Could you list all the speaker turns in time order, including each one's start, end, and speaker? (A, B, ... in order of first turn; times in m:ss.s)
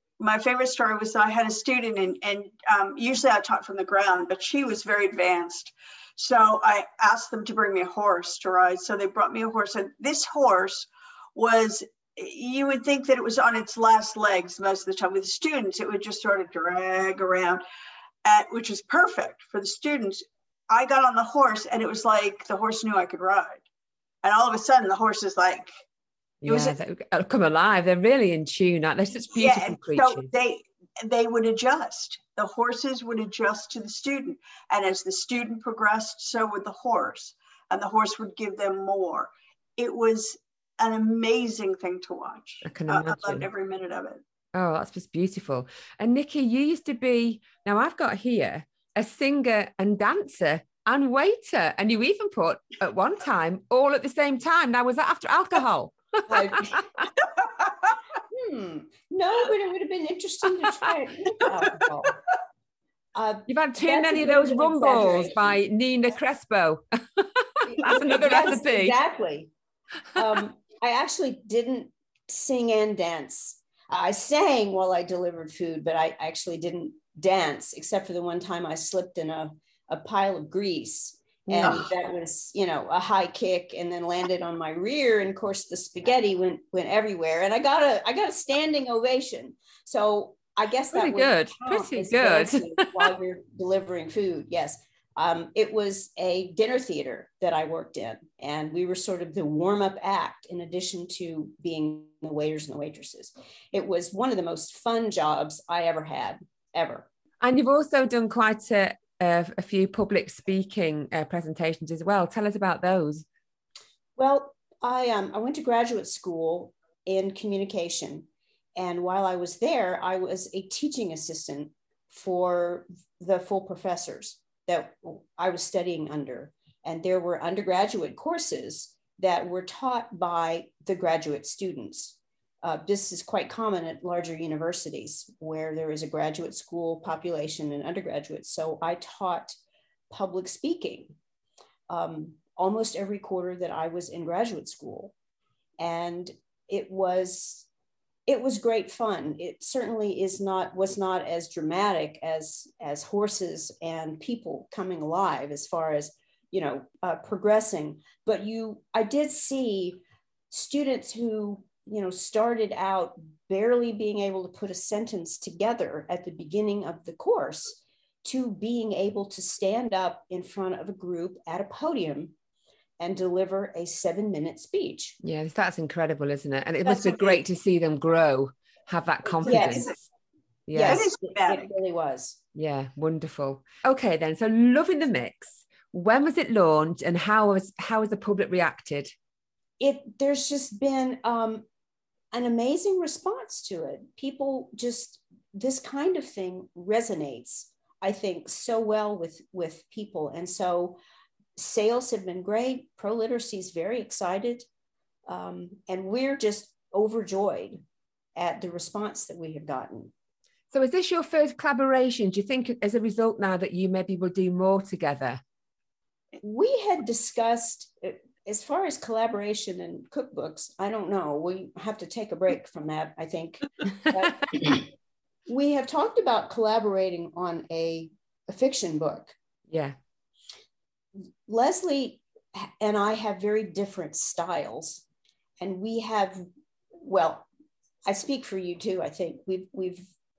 0:00.2-0:17.6 A
0:18.2-0:23.6 A
0:24.2-0:25.7 A
0:26.4-0:30.3 B
0:26.4-0:26.8 A
0:29.3-0:44.2 A
0:42.6-0:43.5 B
0:44.6-0:57.0 B
0:56.3-0:56.8 C
0:57.6-0:57.9 A
0:58.3-1:02.2 C
1:03.2-1:05.6 C
1:03.5-1:09.0 B
1:07.7-1:09.5 C
1:10.2-1:47.1 C
1:21.5-1:21.9 B
1:21.6-1:21.9 A
1:30.9-1:32.9 B
1:47.4-1:53.2 B
1:54.2-2:19.6 C
2:20.1-2:21.2 C
2:21.9-2:25.1 C
2:25.8-2:27.7 C
2:28.3-2:52.3 C
2:53.0-2:55.2 C
2:55.2-3:00.1 B
2:56.9-2:57.4 A
2:59.5-2:59.9 C
2:59.5-2:59.9 A
3:00.7-3:01.1 B
3:00.7-3:02.4 C
3:00.8-3:01.6 A
3:02.6-3:09.1 B
3:09.8-3:11.6 C
3:12.3-3:21.0 C
3:21.6-3:24.6 C
3:25.3-3:27.8 C
3:28.4-3:30.1 C
3:30.7-3:35.4 B
3:36.4-3:44.9 C
3:45.5-3:49.3 C
3:49.7-3:50.0 B
3:51.5-3:55.0 C
3:55.6-3:56.4 C
3:57.0-3:57.5 C
3:58.0-4:00.1 C